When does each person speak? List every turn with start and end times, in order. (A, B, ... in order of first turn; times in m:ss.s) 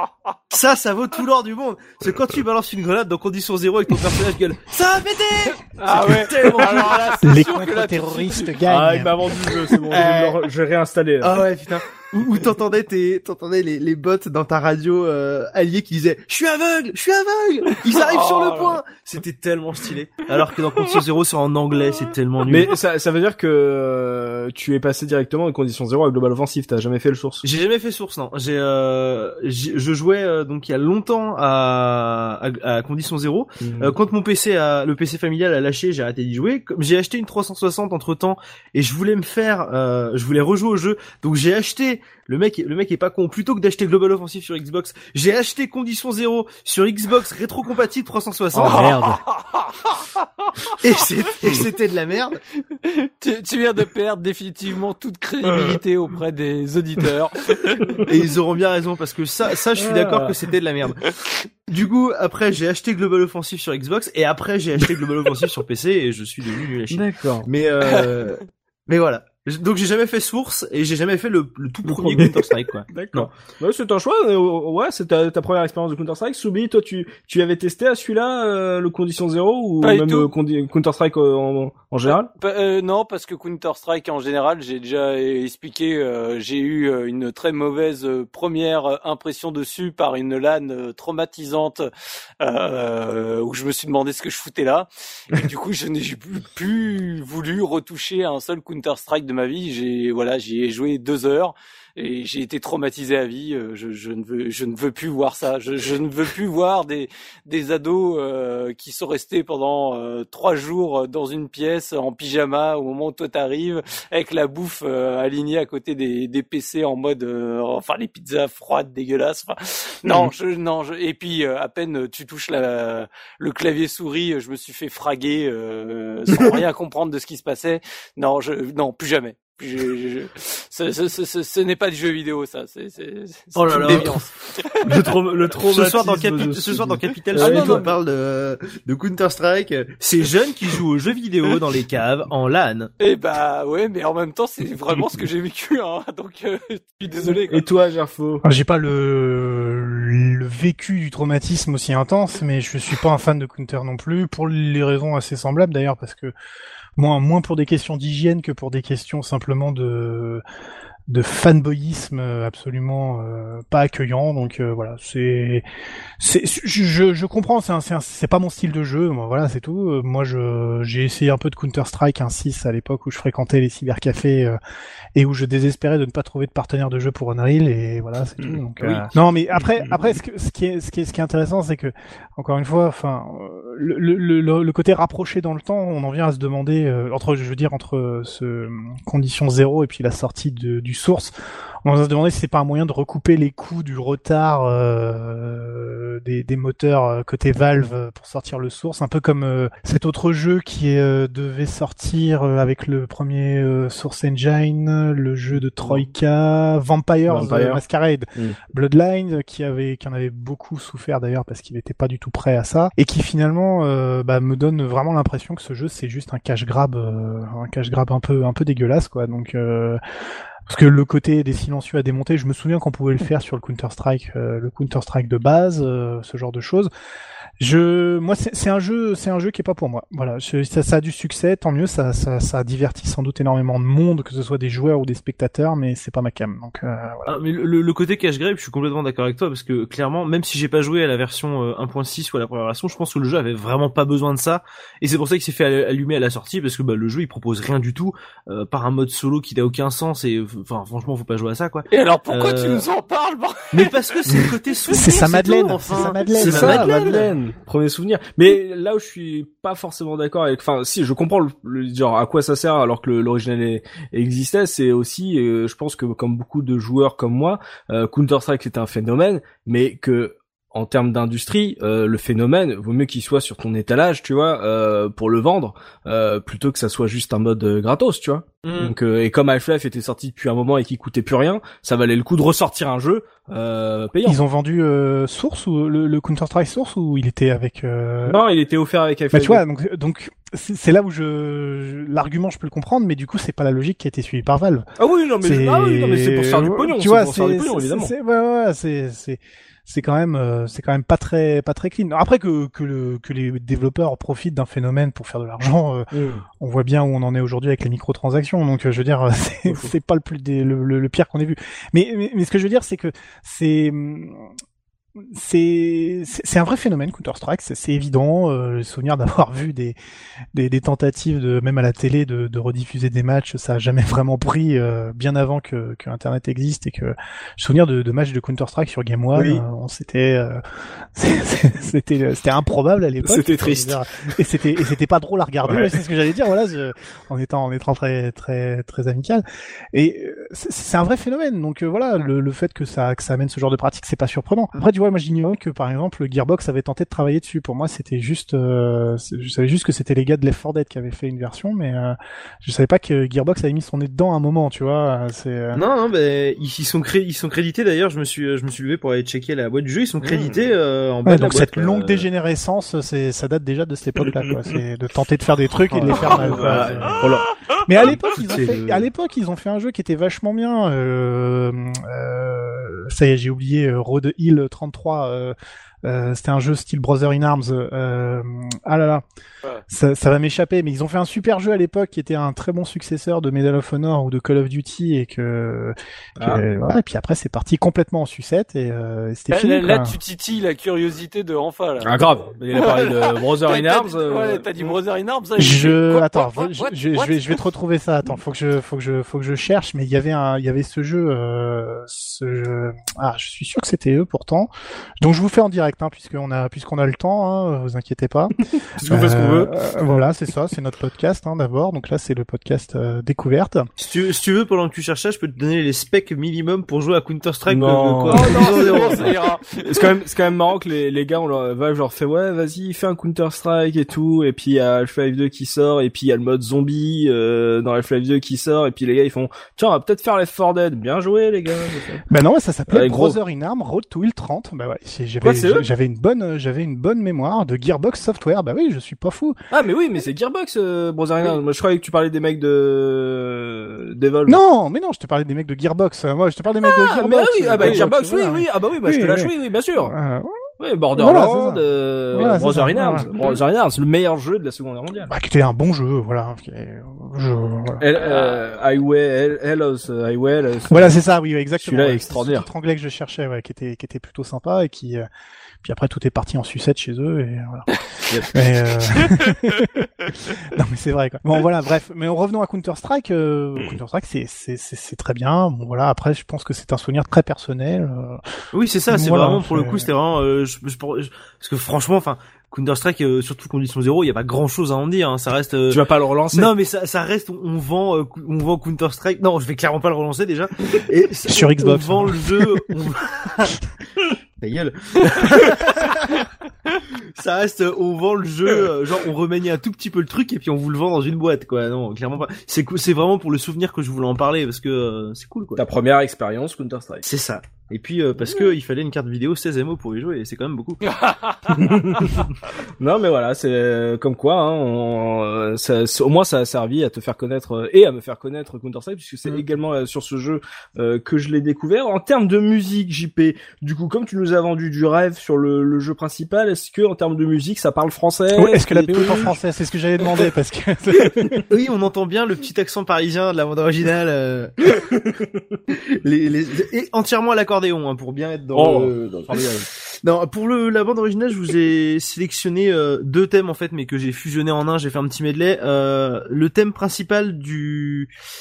0:00.5-0:07.3 A
0:05.8-0:08.6 B
0:07.2-0:09.2 C
0:08.6-0:11.4 D
0:09.9-0:10.4 A
0:11.2-0:22.7 A
0:17.9-0:18.8 B
0:22.4-0:27.4 D
0:27.4-0:49.0 A
0:33.6-0:33.9 D
0:48.5-0:49.2 D
0:48.6-0:50.7 B
0:50.8-0:52.4 A
0:52.8-0:58.0 B
0:58.0-1:01.0 A
0:59.8-1:00.3 D
1:01.7-1:13.3 A
1:06.9-1:07.5 D
1:07.8-1:08.3 B
1:11.8-1:12.4 D
1:12.9-1:22.3 D
1:19.8-1:20.3 B
1:22.1-1:31.9 B
1:32.4-2:14.8 B
2:06.3-2:06.6 D
2:13.6-2:14.2 A
2:13.8-2:14.1 D
2:14.8-2:17.9 D
2:15.7-2:22.9 A
2:17.4-2:17.9 B
2:23.0-2:27.6 B
2:27.5-2:28.4 D
2:28.4-2:36.3 C
2:37.0-2:40.4 C
2:41.1-2:45.6 C
2:46.2-2:54.6 C
2:55.1-3:11.3 C
2:58.4-2:59.9 D
3:11.8-3:40.0 C
3:25.8-3:26.1 D
3:27.3-3:27.8 D
3:40.7-3:46.9 C
3:47.6-3:57.3 C
3:57.3-4:12.8 A
4:11.9-4:14.4 B
4:13.7-4:17.3 A
4:14.9-4:16.9 C
4:16.3-4:44.4 D
4:38.6-4:38.9 A
4:44.2-4:48.4 C
4:48.2-4:49.6 D
4:49.3-4:54.8 C
4:55.0-4:58.1 D
4:55.4-5:14.5 C
5:06.1-5:06.4 D
5:09.7-5:09.9 D
5:15.2-5:20.0 C
5:20.5-5:30.6 C
5:29.3-5:29.6 D
5:31.1-5:55.8 C
5:33.2-5:34.3 D
5:35.6-5:36.0 D
5:55.7-6:02.3 A
6:00.2-6:00.6 D
6:01.2-6:07.2 C
6:05.9-6:07.4 D
6:06.2-6:07.3 A
6:07.8-6:19.2 C
6:08.4-6:09.0 D
6:19.9-6:30.1 C
6:26.4-6:26.6 D
6:29.5-6:32.2 B
6:32.0-6:34.9 D
6:32.7-6:37.6 B
6:35.6-6:44.7 C
6:45.2-6:48.6 C
6:48.9-6:49.8 D
6:49.1-6:53.9 C
6:54.0-6:59.4 A
6:57.7-7:12.2 D
6:58.3-7:00.0 B
7:12.3-7:19.6 C
7:12.9-7:13.4 D
7:15.4-7:15.9 D
7:19.7-7:24.6 D
7:24.5-7:30.5 C
7:26.8-7:30.1 D
7:30.8-7:35.3 D
7:31.1-7:33.3 C
7:33.2-7:33.6 B
7:35.3-7:38.0 C
7:38.0-7:41.1 D
7:38.1-7:38.6 B
7:40.9-7:45.2 C
7:41.8-7:42.7 D
7:45.8-7:48.0 C
7:48.3-7:48.5 D
7:48.5-7:58.4 C
7:58.7-8:13.8 A
7:59.1-8:00.1 C
8:05.9-8:06.7 D
8:11.5-8:12.8 C
8:14.6-8:16.5 A
8:17.1-8:25.8 A
8:25.8-8:27.2 D
8:27.2-8:31.0 A
8:31.0-8:32.2 B
8:31.7-8:32.4 D
8:33.0-8:49.5 D
8:48.5-8:51.6 C
8:51.7-8:55.1 A
8:55.1-8:55.6 D
8:55.9-9:08.3 A
8:58.7-8:59.8 D